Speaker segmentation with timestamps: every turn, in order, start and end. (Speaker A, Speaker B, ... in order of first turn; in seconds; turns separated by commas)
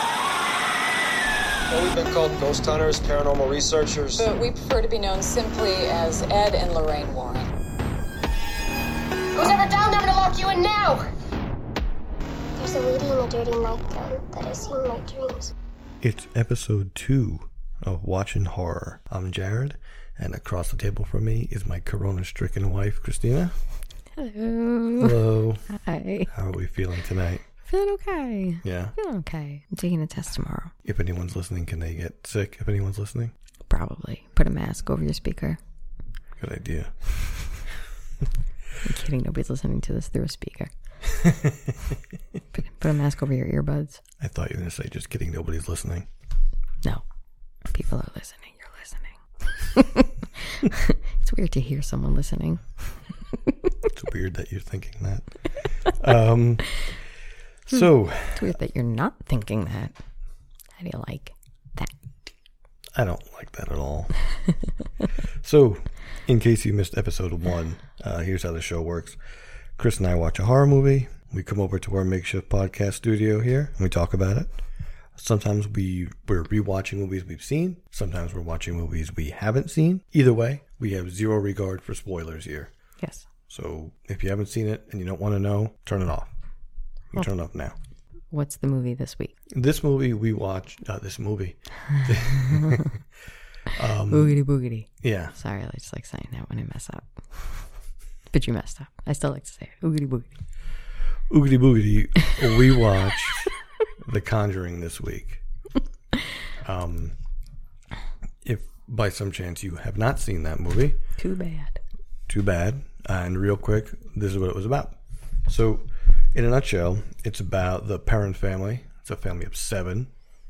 Speaker A: 1.7-4.3, Speaker B: 4.2-7.5, Speaker C: 9.3-11.0, Speaker C: 12.6-15.5, Speaker D: 16.0-23.6, Speaker E: 24.2-26.3, Speaker D: 25.0-25.7, Speaker D: 26.3-27.4, Speaker E: 27.7-30.7, Speaker D: 28.6-28.9, Speaker D: 30.9-33.3, Speaker E: 33.7-35.6, Speaker D: 36.4-36.9, Speaker E: 38.8-40.7, Speaker D: 41.2-41.7, Speaker E: 42.5-44.0, Speaker D: 44.2-46.1, Speaker E: 47.7-52.9, Speaker D: 53.9-55.3, Speaker D: 55.9-56.8, Speaker D: 57.7-58.6, Speaker E: 58.4-60.0, Speaker E: 60.8-61.9, Speaker D: 63.0-64.1, Speaker D: 65.4-69.2, Speaker D: 69.8-74.5, Speaker D: 75.2-82.7, Speaker D: 83.5-86.3, Speaker D: 87.1-87.8, Speaker E: 88.3-89.3, Speaker D: 89.5-92.9, Speaker E: 92.4-92.8, Speaker D: 93.7-94.4, Speaker E: 94.1-97.1, Speaker D: 95.0-95.3, Speaker E: 98.3-100.3, Speaker D: 101.3-105.4, Speaker D: 106.6-107.2, Speaker D: 108.4-111.0, Speaker E: 111.2-111.8, Speaker D: 112.3-120.1